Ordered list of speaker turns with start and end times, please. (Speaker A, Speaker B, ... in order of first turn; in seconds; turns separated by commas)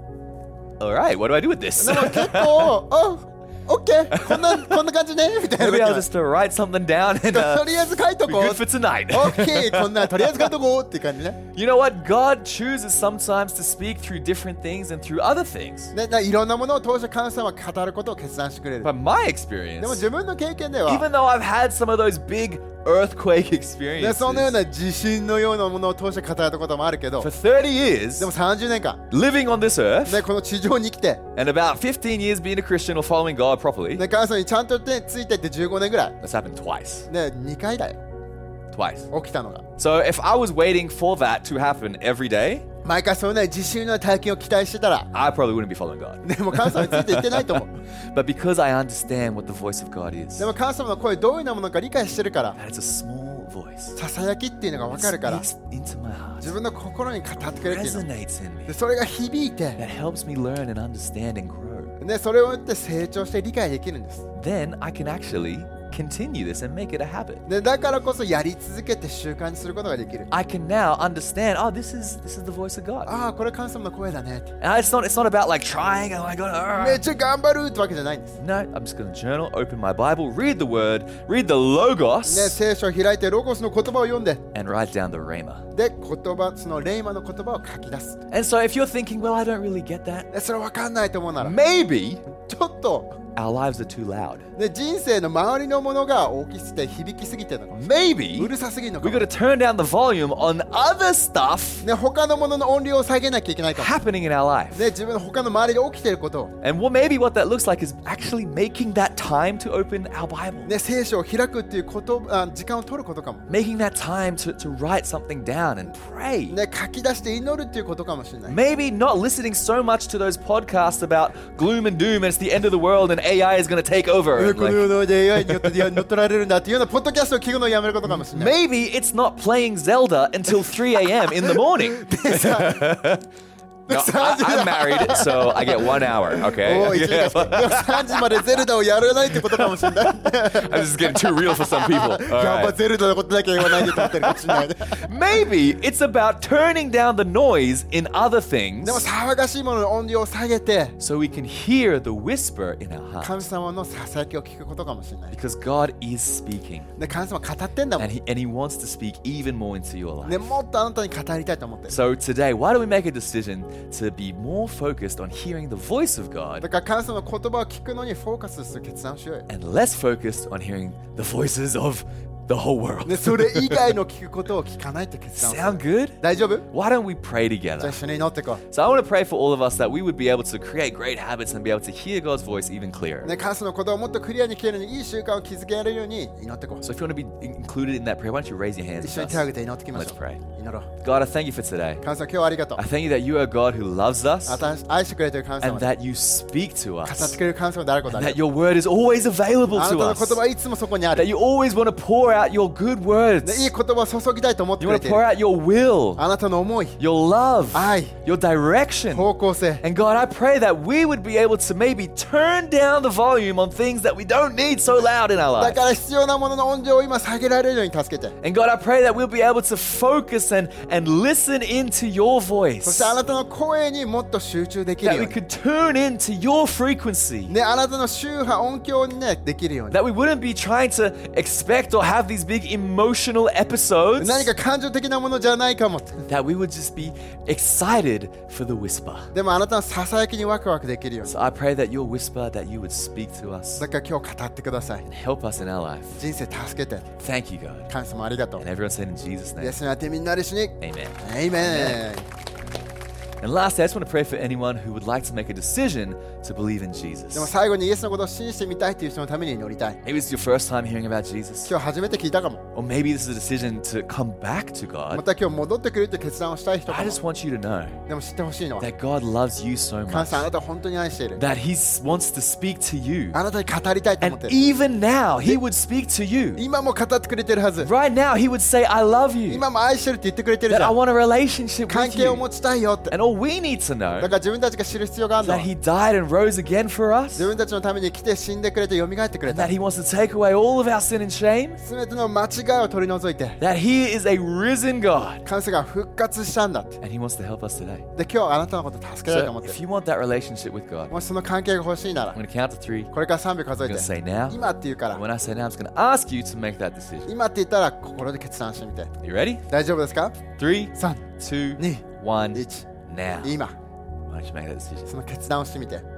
Speaker A: 0.8-2.8, Speaker B: 1.8-6.1, Speaker A: 4.1-4.8, Speaker A: 5.5-10.5, Speaker B: 7.3-11.4, Speaker A: 11.5-15.9, Speaker B: 15.9-18.9, Speaker A: 18.8-20.0, Speaker B: 19.8-21.1, Speaker A: 20.9-24.5, Speaker B: 24.0-27.3, Speaker A: 27.2-28.3, Speaker B: 28.2-29.0, Speaker A: 29.1-30.2, Speaker B: 30.1-31.2, Speaker A: 31.3-34.0, Speaker B: 34.0-36.2, Speaker A: 36.2-37.1, Speaker B: 37.1-38.0, Speaker A: 38.7-39.1, Speaker B: 39.1-39.6, Speaker A: 39.8-42.6, Speaker B: 42.8-45.1, Speaker A: 45.1-50.5, Speaker B: 46.2-47.7, Speaker B: 50.4-52.5, Speaker A: 52.5-54.0, Speaker B: 54.0-55.5, Speaker A: 54.9-56.5, Speaker B: 56.4-58.1, Speaker A: 57.4-58.7, Speaker B: 58.7-59.8, Speaker A: 59.8-61.9, Speaker B: 62.0-64.2, Speaker A: 64.3-67.4, Speaker B: 67.5-70.3, Speaker A: 70.3-73.1, Speaker B: 73.1-74.5, Speaker A: 74.6-77.0, Speaker B: 76.8-78.4, Speaker A: 78.4-82.6, Speaker B: 82.2-84.5, Speaker A: 84.5-85.7, Speaker B: 85.7-88.2, Speaker A: 88.3-90.3, Speaker B: 90.3-91.6, Speaker A: 91.4-92.3, Speaker B: 92.4-93.1, Speaker A: 93.3-94.5, Speaker B: 94.5-99.3, Speaker A: 97.7-101.8, Speaker B: 101.8-104.0, Speaker A: 103.8-104.9, Speaker B: 104.7-106.5, Speaker A: 106.6-110.7, Speaker B: 110.6-113.4, Speaker A: 113.5-116.6, Speaker B: 116.5-118.6, Speaker A: 118.5-125.9, Speaker B: 124.3-128.5, Speaker A: 128.1-133.3, Speaker B: 131.3-132.9, Speaker B: 133.9-145.0, Speaker A: 133.9-138.6, Speaker A: 139.3-142.8, Speaker A: 143.6-149.1, Speaker B: 148.8-150.9, Speaker A: 151.0-153.4, Speaker B: 153.2-155.3, Speaker A: 155.3-156.9, Speaker B: 157.0-158.1, Speaker A: 158.0-160.6, Speaker B: 160.2-162.0, Speaker A: 161.9-166.7, Speaker B: 166.6-169.5, Speaker A: 169.5-173.9, Speaker B: 173.0-176.7, Speaker A: 175.3-176.2, Speaker A: 176.7-178.0, Speaker B: 177.8-178.6, Speaker A: 178.7-183.3, Speaker B: 183.2-186.8, Speaker A: 186.8-190.4, Speaker B: 189.0-190.9, Speaker A: 191.0-192.0, Speaker B: 192.0-192.8, Speaker A: 192.8-194.6, Speaker B: 194.5-195.9, Speaker A: 195.6-197.4, Speaker B: 197.0-198.4, Speaker A: 198.1-200.4, Speaker B: 199.7-201.2, Speaker A: 201.1-203.7, Speaker B: 203.4-205.2, Speaker A: 204.8-206.2, Speaker B: 206.2-207.0, Speaker A: 207.0-209.3, Speaker B: 207.7-208.1, Speaker B: 209.1-209.8, Speaker A: 209.8-215.9, Speaker B: 215.6-218.3, Speaker A: 218.4-223.2, Speaker B: 222.8-225.3, Speaker A: 225.0-227.5, Speaker B: 227.5-230.0, Speaker A: 229.9-234.5, Speaker B: 234.2-236.2, Speaker A: 236.3-239.3, Speaker B: 239.3-241.3, Speaker A: 241.2-243.8, Speaker B: 243.8-245.0, Speaker A: 245.0-246.2, Speaker B: 246.2-247.1, Speaker A: 247.2-247.9, Speaker B: 247.9-248.6, Speaker A: 248.6-249.8, Speaker B: 249.6-252.2, Speaker A: 250.8-252.0, Speaker A: 253.4-257.5, Speaker B: 257.3-260.0, Speaker A: 260.0-261.7, Speaker B: 261.7-262.6, Speaker A: 262.7-265.2, Speaker B: 265.1-267.2, Speaker A: 266.9-268.0, Speaker B: 268.1-268.9, Speaker A: 268.8-270.5, Speaker B: 270.1-271.4, Speaker A: 271.4-273.4, Speaker B: 273.3-274.6, Speaker A: 274.2-276.6, Speaker B: 276.6-277.9, Speaker A: 277.8-279.6, Speaker B: 279.5-281.0, Speaker A: 280.7-282.4, Speaker B: 281.9-283.1, Speaker A: 283.1-284.3, Speaker B: 284.2-285.7, Speaker A: 285.4-287.5, Speaker B: 287.4-289.7, Speaker A: 289.4-291.8, Speaker B: 291.8-293.6, Speaker A: 293.6-295.4, Speaker B: 295.4-297.0, Speaker A: 297.0-298.1, Speaker B: 298.1-299.8, Speaker A: 299.3-301.1, Speaker B: 301.1-302.4, Speaker A: 302.3-303.1, Speaker B: 303.1-305.2, Speaker A: 303.8-307.3, Speaker B: 307.3-309.1, Speaker A: 309.2-309.6, Speaker B: 309.7-310.4, Speaker A: 310.6-313.6, Speaker B: 310.9-312.9, Speaker B: 313.4-313.7, Speaker A: 314.3-315.1, Speaker B: 315.1-316.0